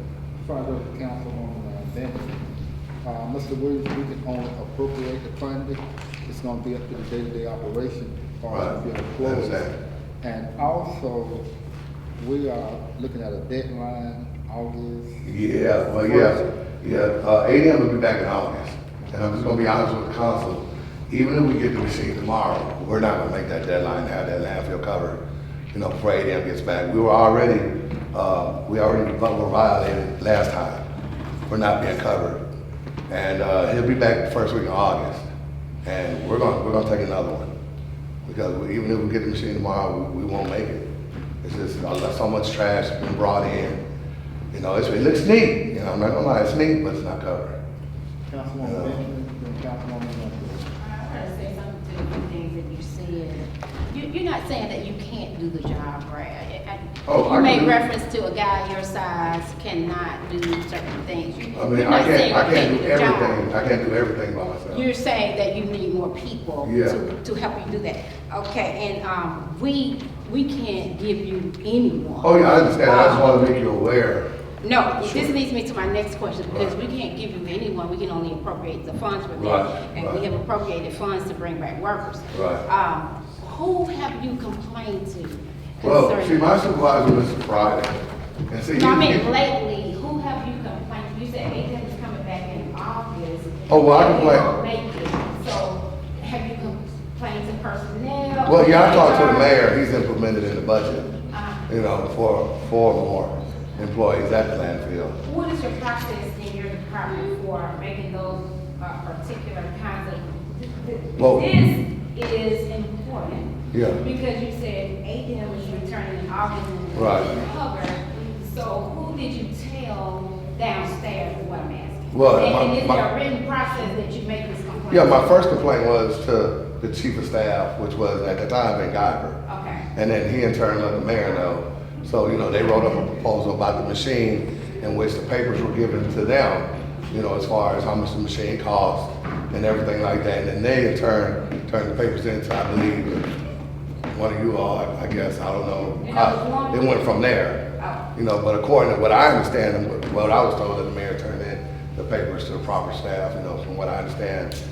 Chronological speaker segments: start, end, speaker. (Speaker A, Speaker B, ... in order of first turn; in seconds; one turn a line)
Speaker A: 0.4-2.5
Speaker A: 3.0-11.5
Speaker B: 8.5-9.7
Speaker A: 12.2-15.3
Speaker B: 15.2-25.2
Speaker A: 15.9-16.5
Speaker B: 25.7-30.8
Speaker B: 31.5-32.4
Speaker B: 33.1-35.2
Speaker B: 35.8-37.5
Speaker B: 38.2-40.9
Speaker B: 41.4-43.8
Speaker B: 44.5-47.5
Speaker A: 48.3-50.7
Speaker B: 48.6-49.0
Speaker C: 50.8-63.5
Speaker B: 57.0-57.8
Speaker B: 61.5-64.8
Speaker C: 64.7-73.3
Speaker B: 66.6-67.0
Speaker B: 72.2-74.2
Speaker C: 74.6-86.6
Speaker B: 75.0-75.3
Speaker B: 79.3-80.2
Speaker B: 82.3-82.6
Speaker B: 85.8-89.2
Speaker C: 88.7-99.6
Speaker B: 93.7-94.5
Speaker B: 98.4-101.1
Speaker C: 101.3-101.6
Speaker B: 101.7-105.2
Speaker C: 105.2-125.4
Speaker B: 111.2-111.5
Speaker B: 113.7-114.0
Speaker B: 116.9-117.3
Speaker B: 122.1-123.0
Speaker B: 124.9-129.4
Speaker C: 129.4-129.8
Speaker B: 129.9-143.2
Speaker B: 144.1-147.6
Speaker C: 146.0-147.2
Speaker C: 147.8-148.0
Speaker B: 148.1-154.5